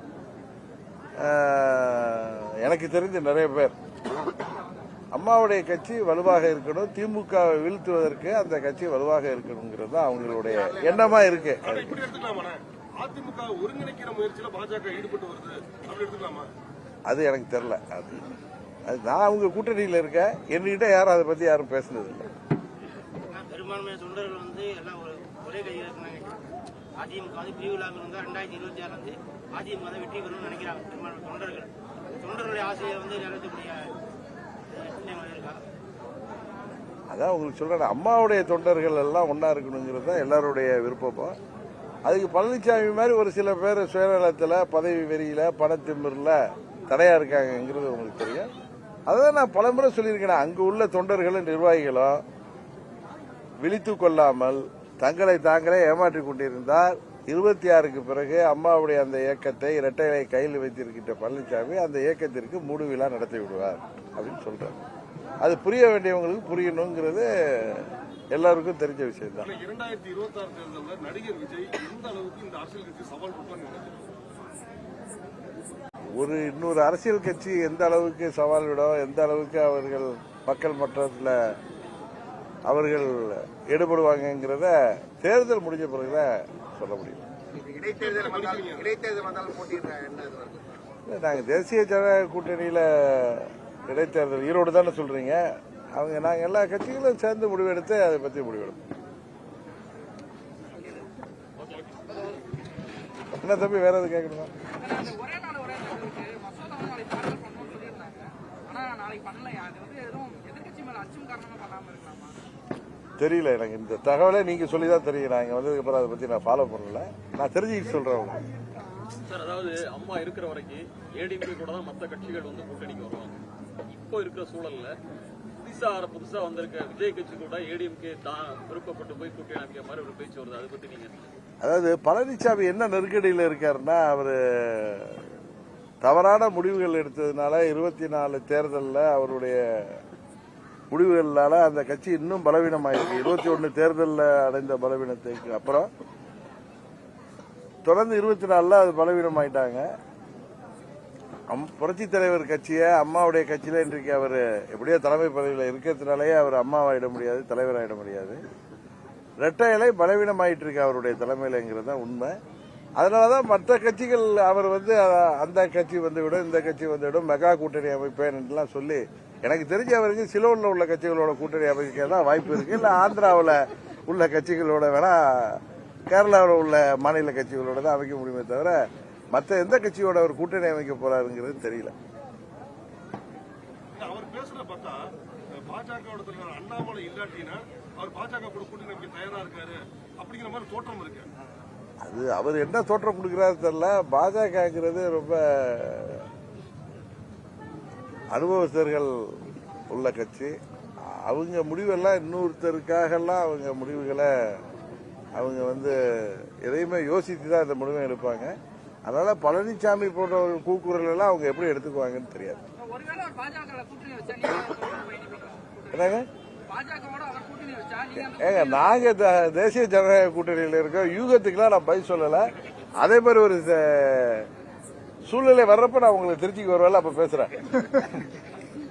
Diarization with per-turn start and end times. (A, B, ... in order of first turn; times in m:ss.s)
0:01.2-0:03.7 A
0:05.1-0:11.9 A
0:10.2-0:11.6 B
0:11.6-0:16.5 C
0:17.0-0:18.2 A
0:18.9-0:22.2 A
0:23.3-0:26.4 D
0:27.0-0:33.9 D
0:34.7-0:35.6 D
0:37.1-0:41.4 A
0:42.0-0:46.4 A
0:46.9-0:48.5 A
0:49.1-0:52.2 A
0:53.6-1:04.8 A
1:05.4-1:09.5 A
1:09.4-1:14.1 C
1:16.2-1:21.4 A
1:22.6-1:27.2 A
1:27.5-1:30.8 B
1:28.0-1:28.9 C
1:31.1-1:35.4 A
1:36.0-1:38.8 A
1:41.6-1:42.2 E
1:43.3-1:44.5 A
1:44.8-1:52.4 F
1:53.2-1:58.4 A
1:59.3-2:03.4 E
2:03.9-2:04.9 E
2:05.6-2:11.2 E
2:11.6-2:15.2 A
2:16.0-2:20.0 A
2:20.9-2:25.9 A
2:27.8-2:29.8 A
2:31.5-2:38.4 A
2:39.4-2:42.3 A
2:43.0-2:58.8 A
2:59.3-3:01.9 A
3:03.9-3:05.0 C
3:05.5-3:11.3 C
3:12.0-3:16.3 A
3:18.3-3:19.1 A
3:19.9-3:20.5 A
3:21.0-3:24.6 A
3:25.4-3:28.5 A
3:29.0-3:32.6 A
3:32.8-3:39.0 F
3:35.9-3:36.2 A
3:38.2-3:42.5 A
3:43.0-3:44.5 A
3:45.2-3:48.2 A